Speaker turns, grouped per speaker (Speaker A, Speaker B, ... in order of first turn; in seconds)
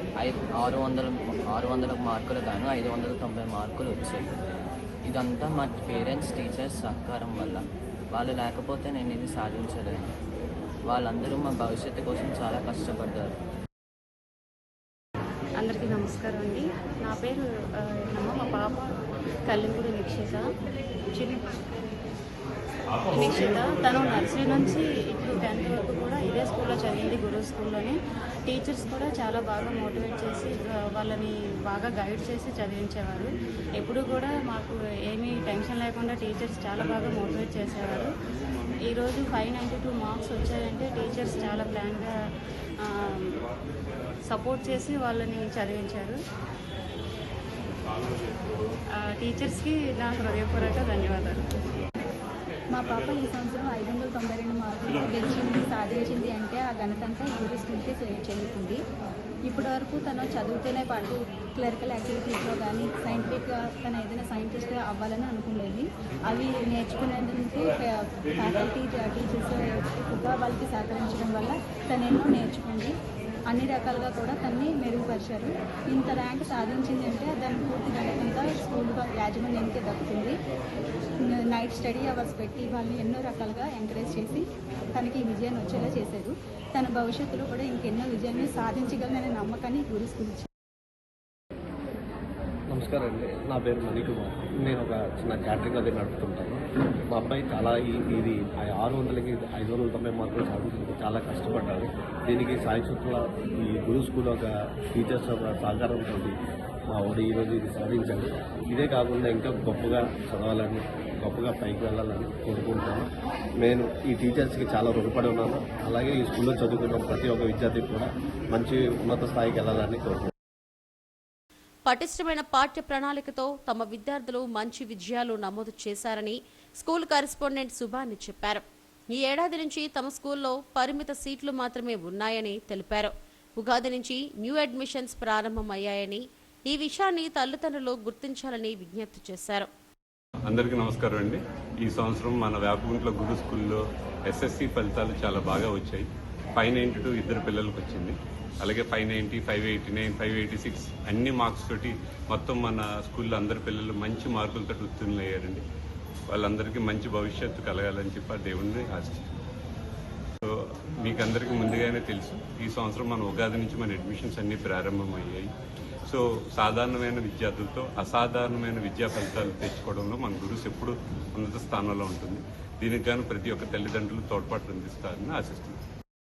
Speaker A: 0.2-7.6, 8.1-10.2, 10.9-13.3
Speaker B: 15.6-18.9, 19.5-20.5, 21.1-21.6, 23.1-28.0, 28.5-38.1, 38.9-42.1, 44.3-46.2, 49.0-51.5
Speaker C: 48.0-48.5, 140.5-155.6, 156.3-159.2, 161.1-165.5, 166.1-175.8
Speaker D: 52.7-58.8, 59.5-72.9, 73.5-80.4, 81.2-90.5
Speaker E: 92.7-106.3, 106.9-113.1, 113.6-120.3
Speaker F: 121.9-139.7